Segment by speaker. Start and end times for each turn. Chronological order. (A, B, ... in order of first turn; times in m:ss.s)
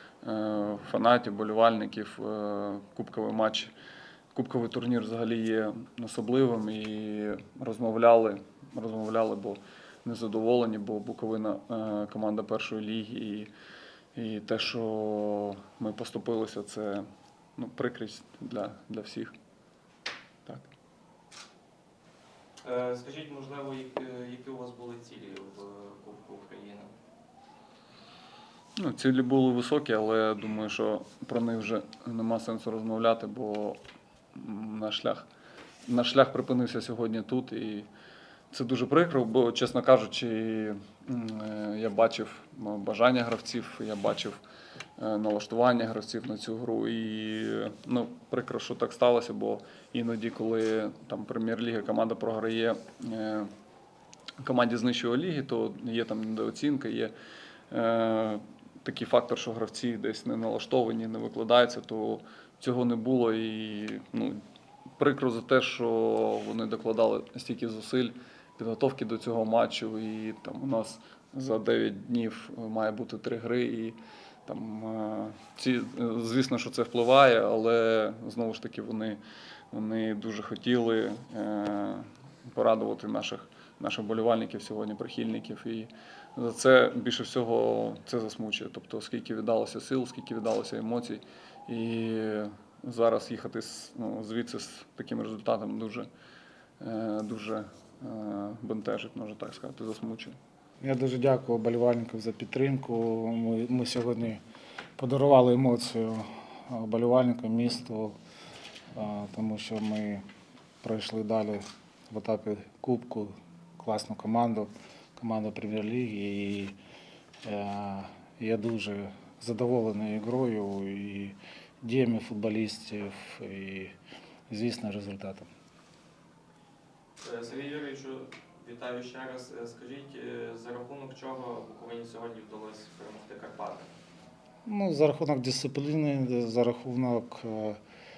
0:00.2-0:03.7 A
0:04.3-0:13.5 A
0:14.2-0:17.1 A
0:17.6-0:19.3 A
0:22.6-0:26.9 B
0:28.8-0:33.8 A
0:34.4-0:35.3 A
0:35.9-0:37.9 A
0:38.5-0:44.4 A
0:45.0-0:53.5 A
0:54.4-0:57.1 A
0:57.7-1:04.4 A
1:05.0-1:19.2 A
1:19.7-1:36.1 A
1:36.8-1:40.4 A
1:40.8-1:44.4 C
1:45.0-1:48.2 C
1:48.9-1:50.2 C
1:50.8-1:56.8 C
1:57.4-2:03.9 C
2:04.5-2:05.5 C
2:07.2-2:13.9 B
2:14.7-2:17.8 C